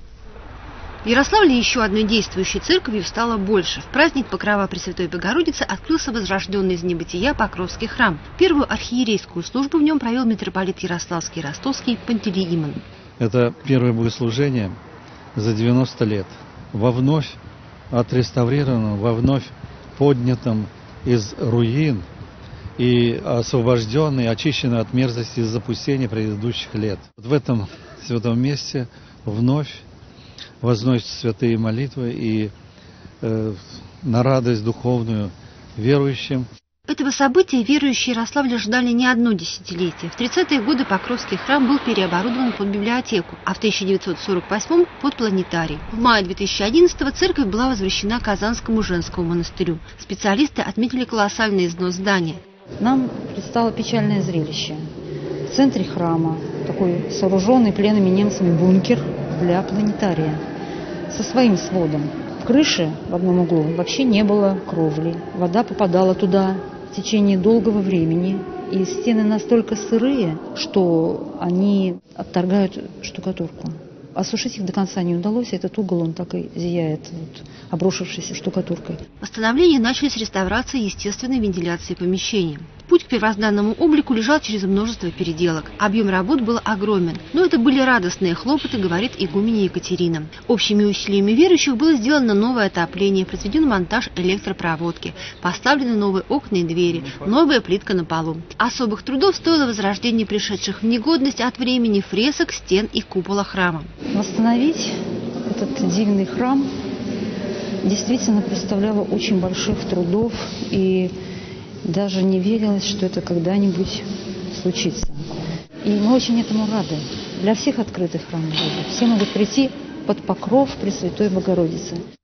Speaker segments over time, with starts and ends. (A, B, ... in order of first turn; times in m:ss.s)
0:01.0-0:12.8 A
0:13.2-0:14.8 B
0:15.4-0:17.4 B
0:17.9-0:22.1 B
0:22.8-0:29.8 B
0:30.6-0:32.5 B
0:33.2-0:36.5 B
0:36.9-0:52.4 A
0:52.8-0:54.8 C
0:55.5-1:00.4 C
1:01.1-1:19.0 C
1:19.2-1:43.9 A
1:44.1-1:44.9 C
1:45.5-1:46.7 C
1:47.8-1:51.1 C
1:51.9-1:55.3 C
1:55.8-2:02.0 C